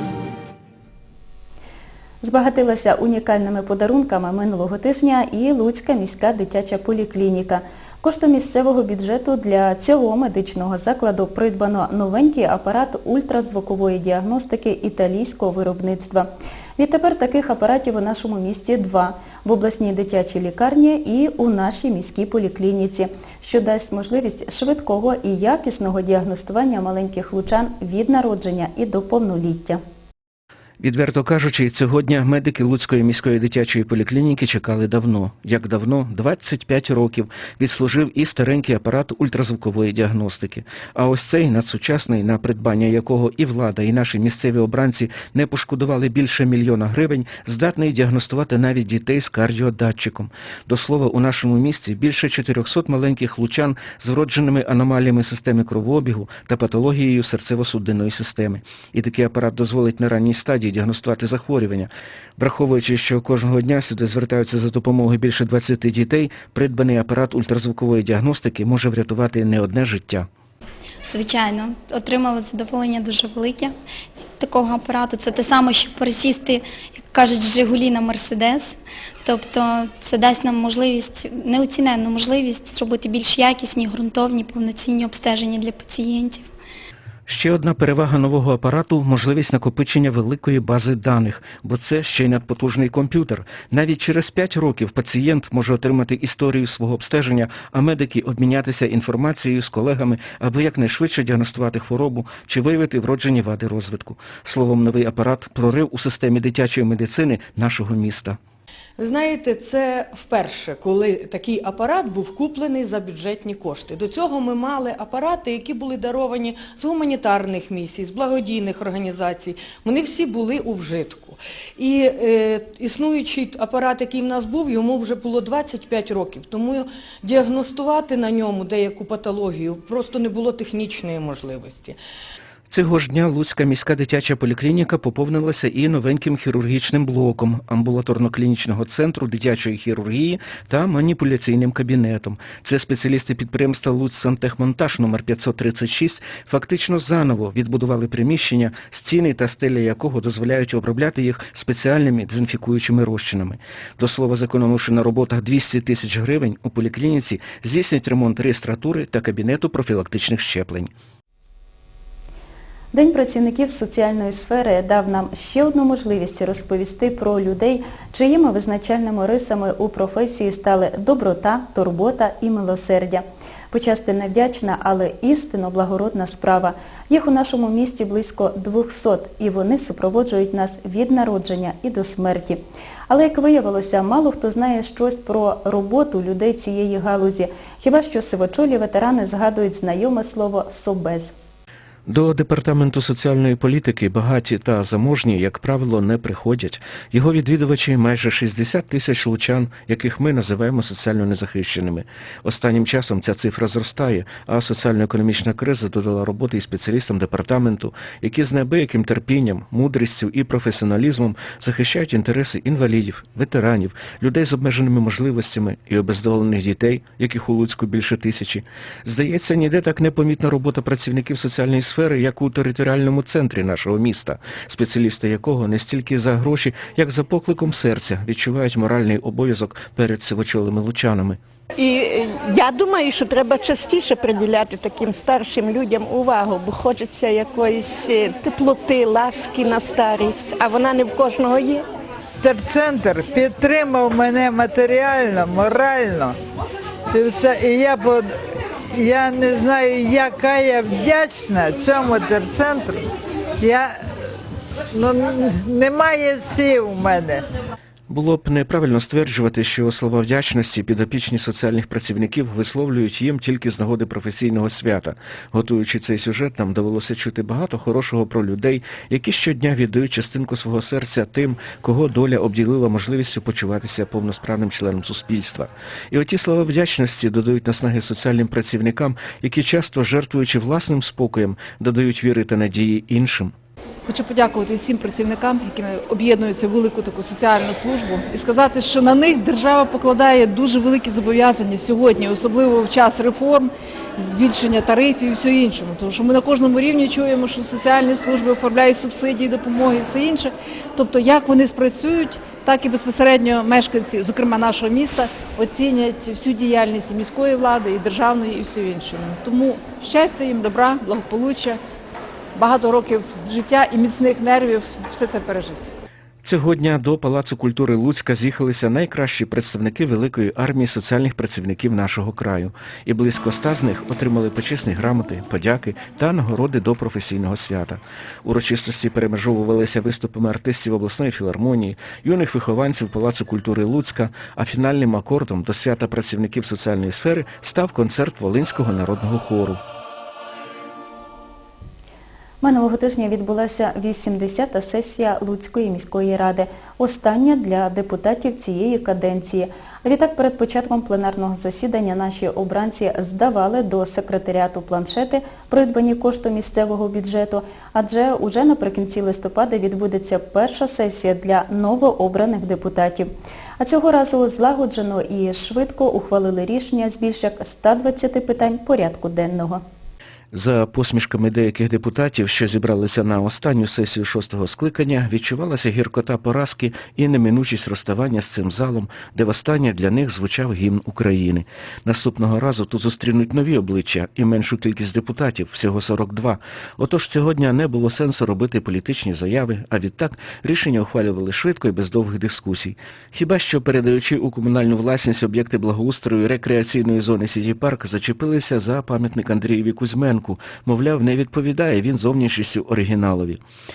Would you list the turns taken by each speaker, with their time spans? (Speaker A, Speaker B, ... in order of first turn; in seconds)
Speaker A: 2.2-29.8, 162.9-191.3, 342.6-363.3, 363.8-369.8
Speaker B: 30.8-70.3, 87.3-108.4, 132.7-160.9, 192.1-231.4, 258.1-283.5, 316.4-339.8, 370.5-403.6
Speaker C: 71.1-73.7, 74.4-86.5
Speaker D: 109.0-132.0
Speaker E: 231.8-241.8
Speaker F: 242.4-246.3, 247.1-248.2, 248.9-253.0, 253.6-253.9, 255.0-257.4
Speaker G: 284.1-311.8, 312.6-315.9